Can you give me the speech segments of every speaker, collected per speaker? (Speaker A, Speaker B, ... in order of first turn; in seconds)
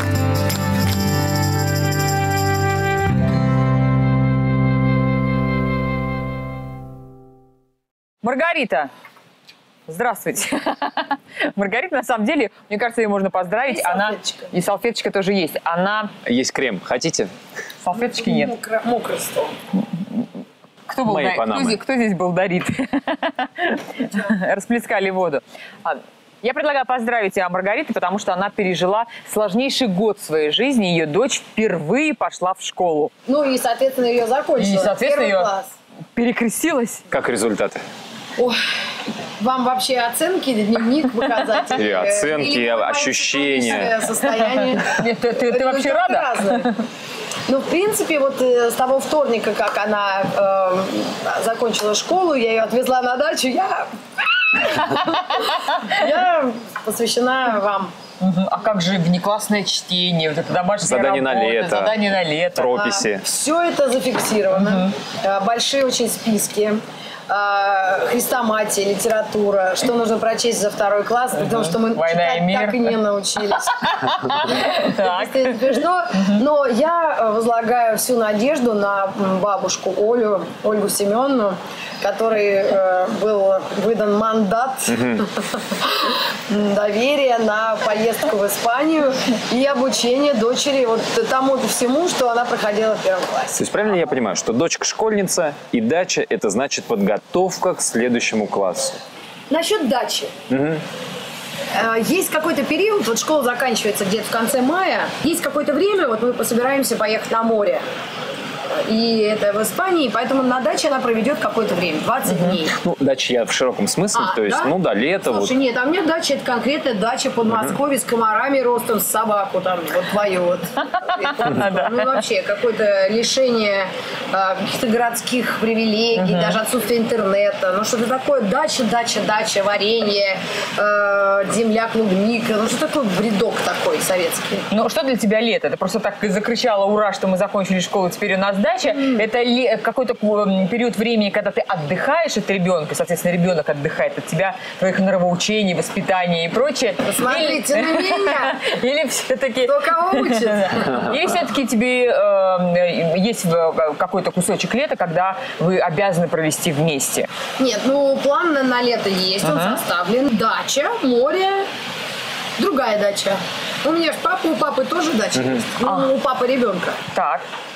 Speaker A: 8.2-8.9, 9.9-16.1, 17.8-18.5, 20.9-33.1, 34.6-35.5, 36.1-37.0, 44.6-46.8, 58.2-62.8, 64.6-64.9, 71.4-72.9, 73.7-76.4, 121.0-122.2, 126.1-126.6, 134.7-157.3, 159.4-159.8, 165.8-166.1, 167.1-167.4
Speaker B: 13.7-14.5, 17.9-19.5, 33.3-35.7, 39.4-46.7, 47.5-57.9, 62.7-93.6, 99.5-100.3, 101.7-107.8, 108.7-112.8, 114.1-134.7, 147.0-148.7, 149.7-151.1, 157.6-161.7, 162.6-167.0
Speaker C: 16.2-17.3, 21.0-21.8, 37.1-37.8, 41.7-44.0, 60.8-62.0, 62.5-63.2, 84.9-85.2, 93.5-99.0, 100.5-100.8, 112.8-115.5, 117.5-117.8, 165.3-165.6